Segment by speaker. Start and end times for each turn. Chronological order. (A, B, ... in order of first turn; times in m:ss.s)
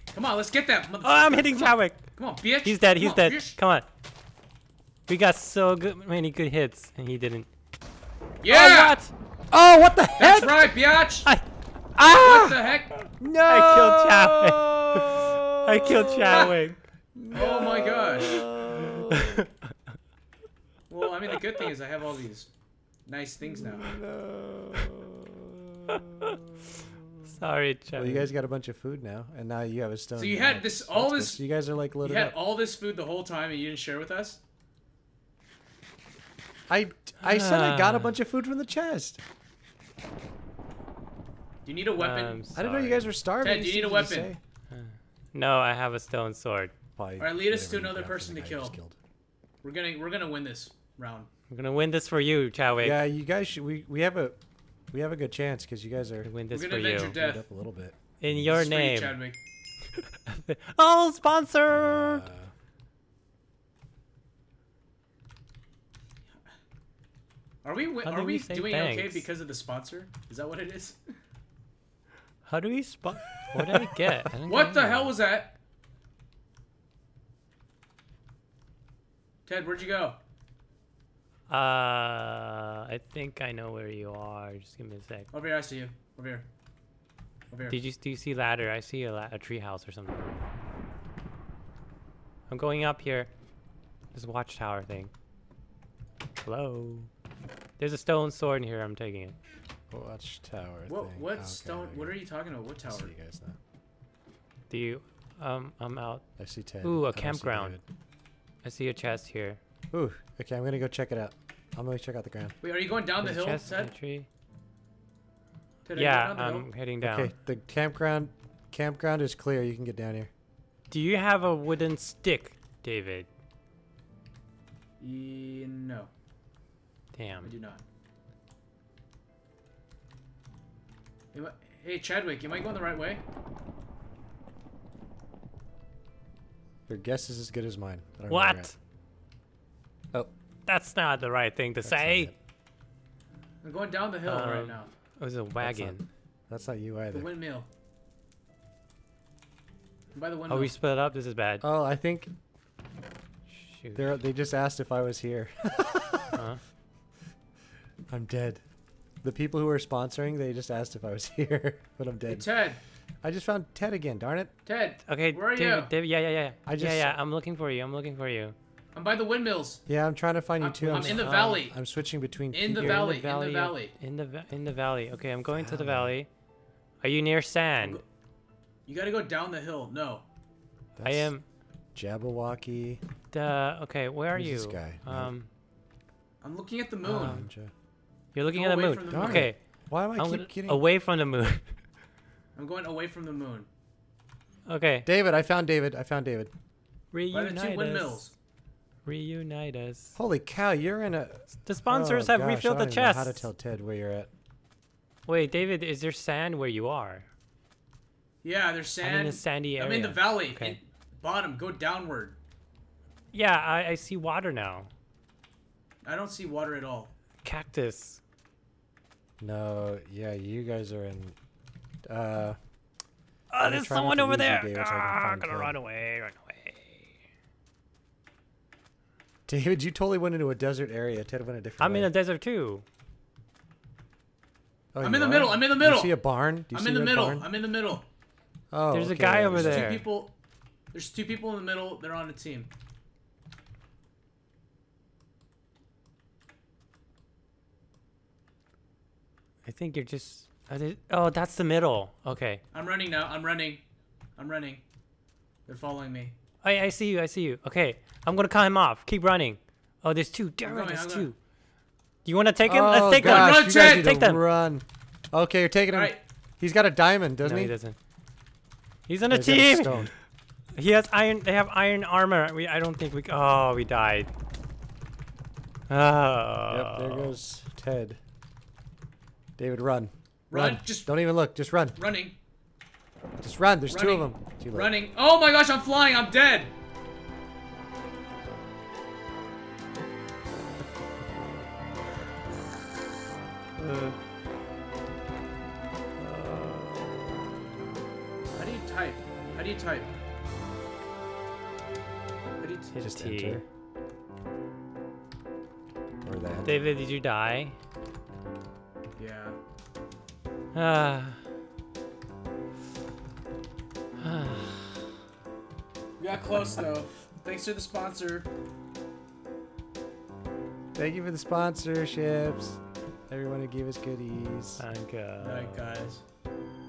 0:00.1-0:03.6 A
0:01.0-0:02.0 B
0:02.6-0:03.8 B
0:05.1-0:07.5 B
0:08.4-0:09.0 A
0:08.5-0:09.1 B
0:09.5-0:10.5 C
0:10.2-0:11.3 A
0:10.2-0:11.4 B
0:12.0-0:12.5 C
0:12.0-0:12.6 B
0:12.1-0:13.0 A
0:13.2-0:16.5 C
0:13.4-0:16.8 B
0:16.2-0:16.6 A
0:17.1-0:19.4 C
0:17.3-0:18.4 A
0:18.2-0:19.5 B
0:20.9-0:22.5 A
0:23.0-0:24.0 A
0:23.4-0:25.3 C
0:25.8-0:26.4 C
0:27.2-0:28.3 B
0:28.0-0:32.3 C
0:30.2-0:31.4 A
0:32.0-0:34.4 A
0:36.7-0:39.2 C
0:37.2-0:38.2 B
0:41.6-0:42.5 A
0:41.9-0:43.2 B
0:42.5-0:44.4 C
0:43.4-0:44.3 A
0:44.7-0:46.7 B
0:47.0-0:49.0 C
0:47.2-0:48.8 A
0:49.6-0:51.3 A
0:51.5-0:53.0 B
0:52.8-0:54.4 C
0:54.9-0:56.3 C
0:56.2-0:57.2 B
0:56.5-0:57.5 A
0:57.1-0:58.7 C
0:58.2-0:59.2 B
0:58.5-0:59.4 A
1:00.0-1:02.3 B
1:01.7-1:02.5 C
1:07.6-1:11.0 A
1:08.0-1:09.3 B
1:12.4-1:15.1 B
1:14.4-1:15.5 A
1:19.4-1:20.2 A
1:21.5-1:25.3 B
1:25.3-1:26.5 A
1:27.5-1:27.8 A
1:27.7-1:30.3 B
1:32.5-1:33.3 B
1:34.1-1:35.1 B
1:36.4-1:37.1 B
1:37.8-1:39.4 B
1:39.9-1:42.2 C
1:40.9-1:43.1 A
1:42.9-1:43.6 C
1:44.7-1:46.2 B
1:46.4-1:47.8 C
1:46.8-1:47.8 B
1:48.6-1:49.6 B
1:49.9-1:52.6 C
1:52.6-1:53.9 A
1:53.2-1:54.2 B
1:55.8-1:56.7 A
1:55.9-1:57.3 B
1:57.0-2:00.3 C
2:00.9-2:03.3 B
2:05.0-2:06.1 A
2:07.1-2:07.5 B
2:07.4-2:07.8 A
2:11.3-2:13.2 A
2:16.9-2:18.7 C
2:18.3-2:18.7 B
2:20.7-2:22.3 B
2:21.8-2:22.4 C
2:23.6-2:24.9 A
2:24.2-2:26.0 B
2:25.6-2:27.3 C
2:27.1-2:27.7 A
2:30.1-2:30.7 A
2:30.5-2:31.6 B
2:31.6-2:32.3 C
2:33.5-2:34.1 B
2:33.9-2:36.4 C
2:36.3-2:36.6 B
2:38.1-2:38.6 C
2:39.2-2:42.5 C
2:42.3-2:42.8 A
2:43.2-2:44.5 C
2:44.6-2:45.9 A
2:45.0-2:48.5 B
2:46.6-2:47.2 C
2:48.9-2:49.8 A
2:49.9-2:53.1 C
2:50.6-2:51.7 A
2:50.9-2:51.7 B
2:52.5-2:53.9 A
2:52.8-2:56.3 B
2:55.5-2:56.2 C
2:57.0-2:58.0 B
2:58.8-3:00.2 A
3:01.0-3:01.3 C
3:01.0-3:01.4 B
3:01.9-3:03.0 C
3:03.3-3:05.5 B
3:04.3-3:05.3 C
3:06.4-3:07.4 A
3:07.0-3:07.5 B
3:07.0-3:07.7 C
3:08.3-3:09.6 B
3:08.5-3:09.5 A
3:09.1-3:10.8 C
3:10.1-3:11.6 B
3:12.6-3:13.7 A
3:14.7-3:15.1 B
3:15.0-3:16.5 C
3:17.1-3:18.3 B
3:17.3-3:18.3 A
3:19.0-3:20.1 B
3:20.1-3:24.3 C
3:21.6-3:23.5 B
3:25.2-3:27.2 B
3:28.4-3:32.4 A
3:29.0-3:30.8 B
3:33.3-3:34.9 B
3:36.0-3:37.1 A
3:37.4-3:38.2 B
3:39.4-3:41.4 C
3:42.0-3:42.6 C
3:43.5-3:47.2 B
3:43.6-3:45.8 C
3:49.5-3:52.1 C
3:51.8-3:52.8 B
3:54.9-3:57.5 C
3:55.0-3:58.0 A
3:58.7-3:59.9 C
3:58.9-4:00.0 B
3:59.6-4:00.3 A
4:00.9-4:02.7 A
4:09.6-4:12.6 B
4:12.7-4:13.8 A
4:14.4-4:14.8 A
4:15.6-4:16.3 A
4:16.6-4:21.3 B
4:20.6-4:21.3 A
4:22.2-4:24.4 B
4:22.6-4:27.7 C
4:23.1-4:24.1 A
4:25.9-4:26.2 A
4:27.4-4:28.0 B
4:29.1-4:30.1 B
4:29.3-4:30.1 C
4:30.8-4:34.3 B
4:35.9-4:37.3 B
4:36.7-4:38.2 C
4:39.6-4:42.0 C
4:40.5-4:41.2 A
4:41.9-4:42.4 A
4:43.4-4:45.0 C
4:43.9-4:46.7 A
4:58.5-5:00.1 A
5:02.6-5:03.0 A
5:02.9-5:03.6 B
5:03.0-5:03.6 C
5:06.2-5:06.8 C
5:06.6-5:07.8 B
5:09.2-5:09.6 A
5:10.7-5:11.4 B
5:14.2-5:15.0 B
5:16.2-5:18.5 A
5:16.3-5:17.0 C
5:20.9-5:24.8 C
5:24.8-5:26.0 B
5:25.4-5:26.2 A